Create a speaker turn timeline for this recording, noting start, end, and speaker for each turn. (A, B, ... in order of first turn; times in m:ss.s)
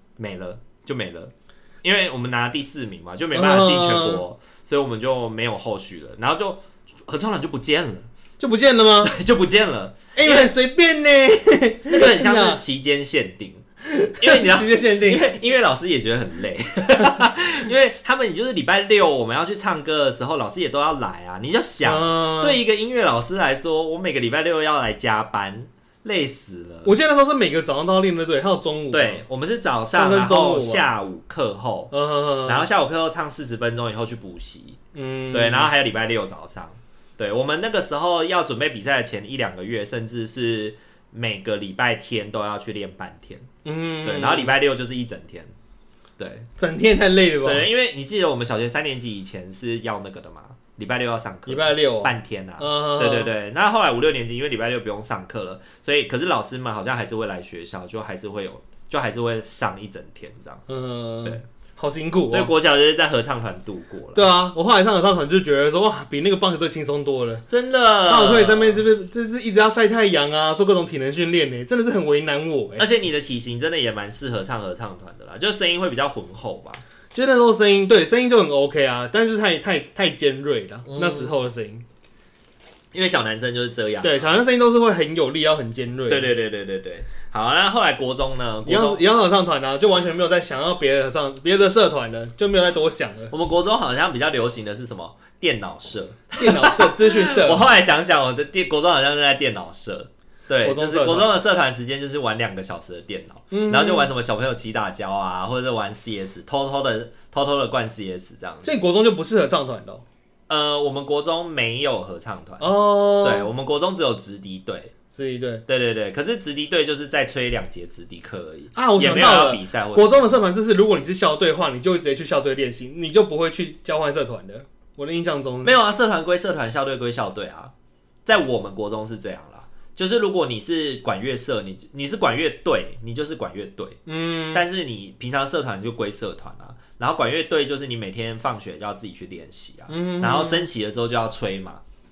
0:00.2-0:01.3 A
0:01.8-0:08.1 A
0:03.3-0:04.2 B
0:08.4-0:09.2 B
0:09.0-0:10.5 A
0:10.2-0:12.6 B
0:11.9-0:13.6 A
0:13.9-0:15.3 B
0:14.2-0:26.9 A
0:21.8-0:22.6 B
0:26.8-0:29.2 B
0:28.9-0:31.9 A
0:30.0-0:30.9 B
0:31.9-0:32.7 B
0:32.4-0:34.8 A
0:34.9-0:35.7 B
0:35.3-0:43.5 A
0:43.6-0:44.5 B
0:44.0-0:45.5 A
0:46.2-0:46.5 A
0:46.6-0:47.7 B
0:47.4-1:00.6 A
0:51.5-0:53.3 B
1:00.7-1:02.5 B
1:02.3-1:04.3 A
1:04.2-1:07.4 B
1:07.5-1:08.8 A
1:08.1-1:12.8 B
1:12.8-1:16.8 A
1:17.1-1:21.8 B
1:20.9-1:21.3 A
1:22.9-1:24.3 A
1:24.0-1:26.3 B
1:26.1-1:29.0 A
1:28.6-1:33.3 B
1:33.3-1:48.7 A
1:36.4-1:37.7 B
1:40.6-1:41.3 B
1:43.5-1:44.1 B
1:48.6-1:50.0 B
1:50.5-1:54.9 A
1:52.6-1:53.5 B
1:55.1-1:55.6 B
1:55.7-2:00.3 A
1:58.8-2:05.8 B
2:05.6-2:07.7 A
2:08.3-2:14.0 A
2:14.1-2:14.6 B
2:14.5-2:21.8 A
2:19.9-2:20.7 B